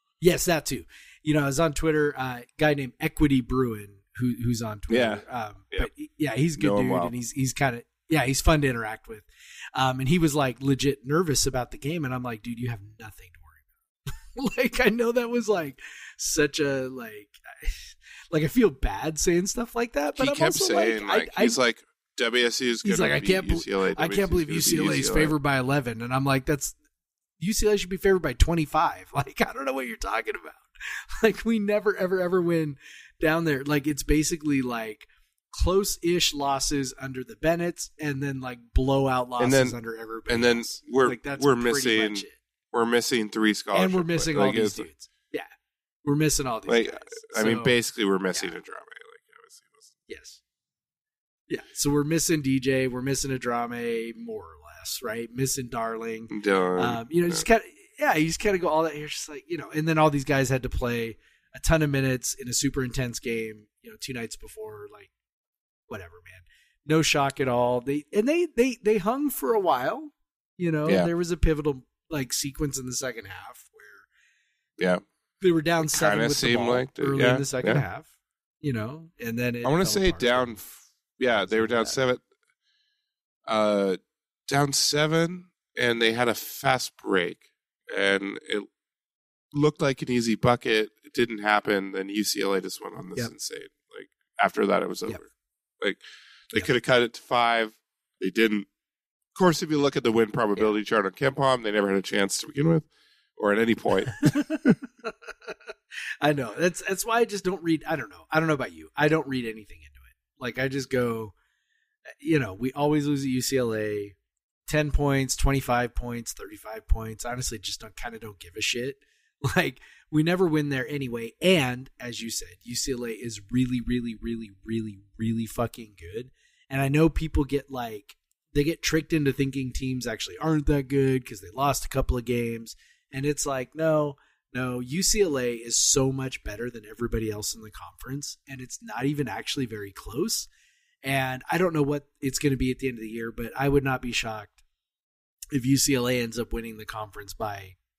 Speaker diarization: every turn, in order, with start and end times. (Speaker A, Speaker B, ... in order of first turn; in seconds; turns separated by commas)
Speaker A: 0.2-13.6, Speaker B: 4.9-5.9, Speaker B: 6.6-7.1, Speaker A: 14.3-21.6, Speaker B: 20.2-25.3, Speaker A: 22.8-26.8, Speaker A: 27.4-30.6, Speaker A: 31.2-42.4, Speaker B: 39.4-39.8, Speaker B: 40.3-44.9, Speaker A: 43.7-45.5, Speaker A: 46.0-47.8, Speaker B: 46.7-49.9, Speaker A: 50.1-50.4, Speaker A: 51.5-65.1, Speaker B: 56.3-57.5, Speaker A: 65.9-74.1, Speaker B: 74.8-75.0, Speaker A: 75.4-78.1, Speaker B: 75.8-77.8, Speaker A: 78.6-80.6, Speaker B: 79.6-82.2, Speaker A: 81.4-82.0, Speaker B: 83.5-88.7, Speaker B: 89.5-98.7, Speaker B: 99.3-104.8, Speaker A: 104.3-105.6, Speaker A: 106.2-111.3, Speaker A: 112.2-114.1, Speaker A: 114.7-140.5, Speaker A: 141.0-144.6, Speaker A: 145.5-147.8